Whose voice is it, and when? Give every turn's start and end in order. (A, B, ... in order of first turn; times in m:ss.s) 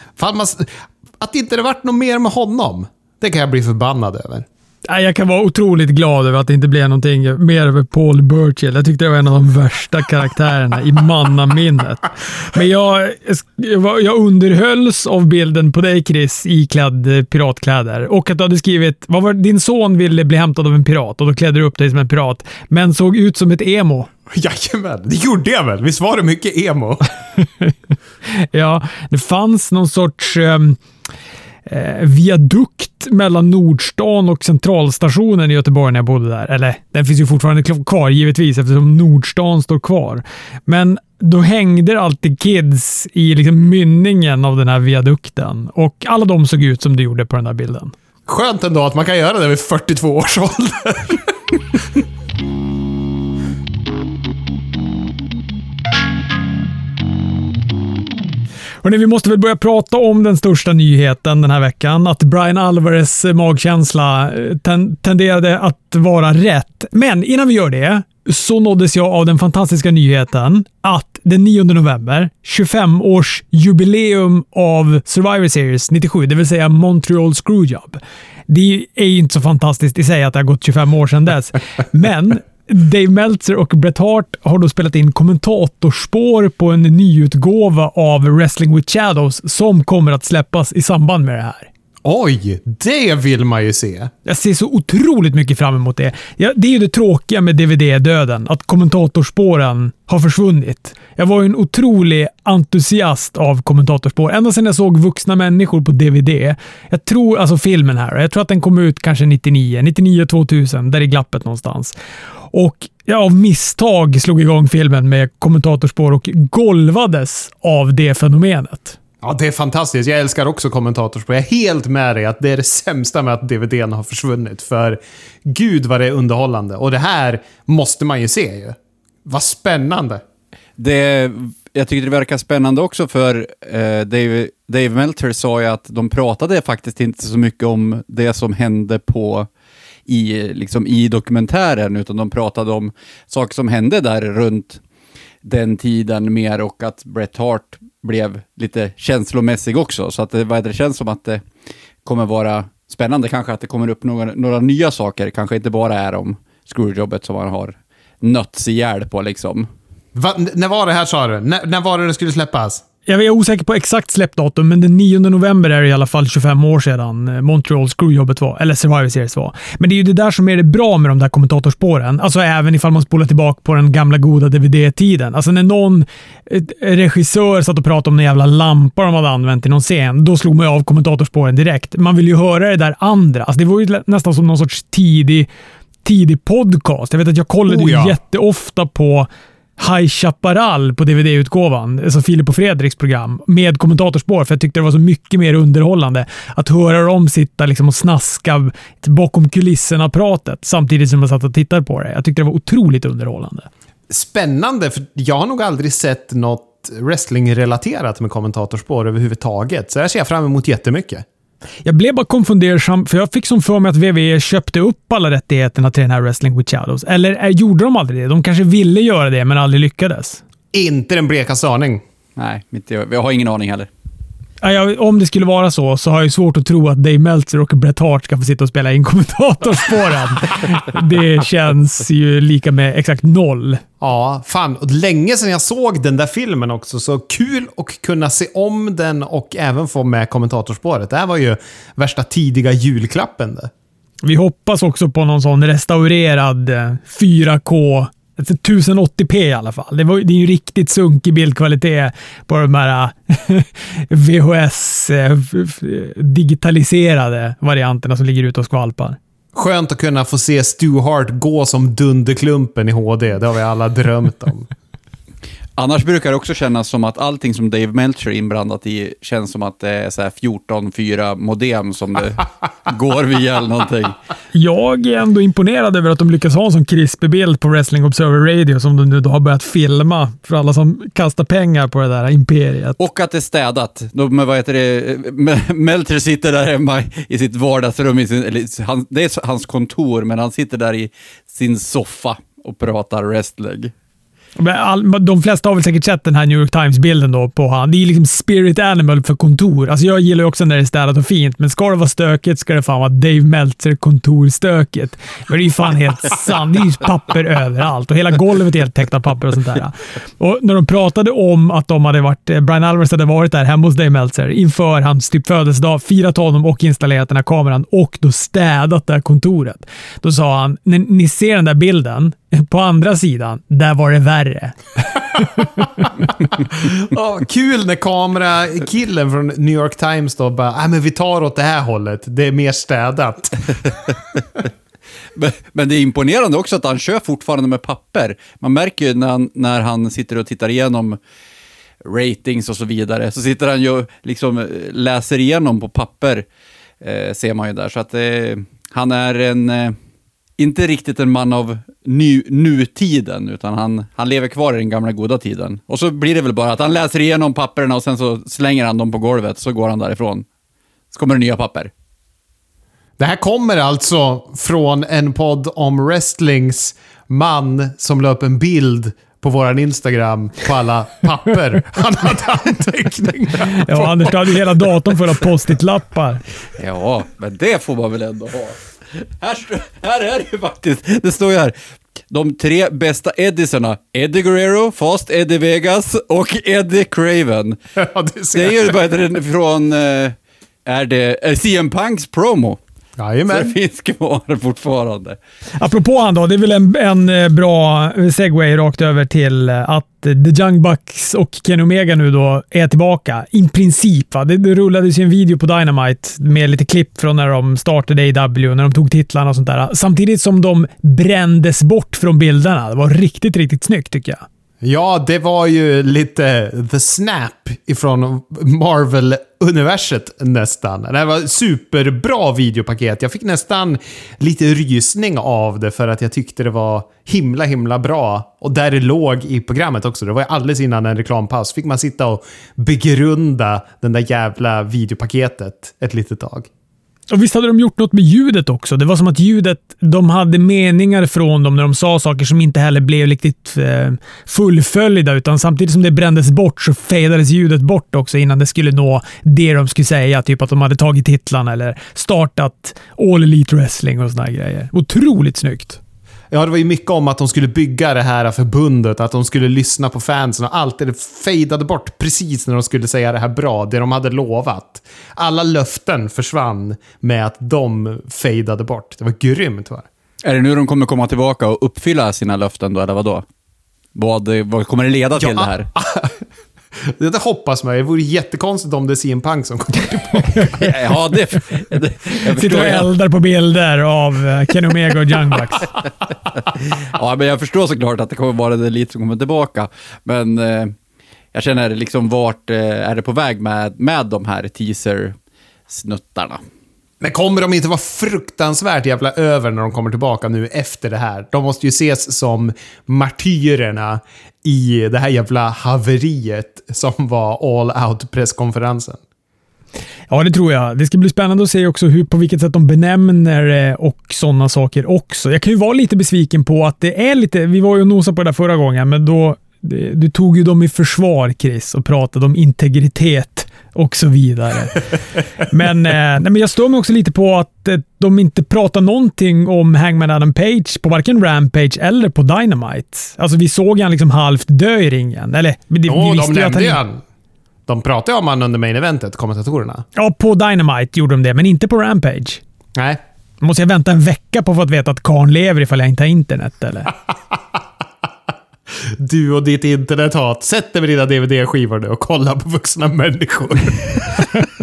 0:00.2-0:04.4 A
0:04.9-0:24.1 B
0:24.3-0:27.1 A
0:28.4-0:30.8 B
0:31.7-0:47.9 B
0:48.3-0:51.3 A
0:58.8-1:31.7 B
1:32.0-1:34.1 A
1:34.2-1:51.9 B
1:52.5-1:59.0 B
1:59.2-2:10.2 A
2:10.8-2:19.5 C
2:20.1-2:24.8 C
2:25.4-2:31.4 C
2:32.0-2:39.7 C
2:40.1-2:42.8 A
2:43.1-3:05.5 B
3:06.0-3:23.7 B
3:07.7-3:08.2 A
3:24.1-3:31.2 A
3:31.8-3:40.4 B
3:40.7-3:42.0 A
3:42.4-3:43.9 C
3:44.6-3:53.8 B
3:54.0-4:03.7 A
4:04.2-4:19.2 B
4:19.5-4:24.7 A
4:25.8-4:34.2 C
4:34.5-4:43.0 B
4:43.0-4:53.9 C
4:54.6-5:26.1 B
5:26.5-5:33.9 A
5:35.3-5:41.2 C
5:42.0-5:46.4 C
5:47.0-5:50.0 C
5:50.6-6:00.4 C
6:01.1-6:01.9 C
6:03.2-6:14.6 A
6:13.9-6:16.4 B
6:16.8-6:21.7 C
6:22.3-6:27.8 C
6:28.0-6:29.0 A
6:28.5-6:32.8 C
6:33.2-6:33.7 A
6:33.5-6:35.4 C
6:35.8-6:54.4 B
6:54.8-7:16.7 A
7:17.3-7:36.0 B
7:36.5-7:50.1 A
7:50.4-7:53.4 C
7:54.1-7:55.9 C
7:55.4-7:56.3 A
7:57.1-8:00.8 A
8:00.6-8:03.1 C
8:02.4-8:05.9 B
8:07.0-8:10.9 C
8:11.5-8:15.4 C
8:15.9-8:16.6 C
8:17.2-8:29.2 A
8:30.3-8:57.0 B
8:56.1-8:57.2 A
8:57.9-9:00.0 A
9:00.2-9:02.6 B
9:03.6-9:07.1 B
9:09.2-9:14.6 A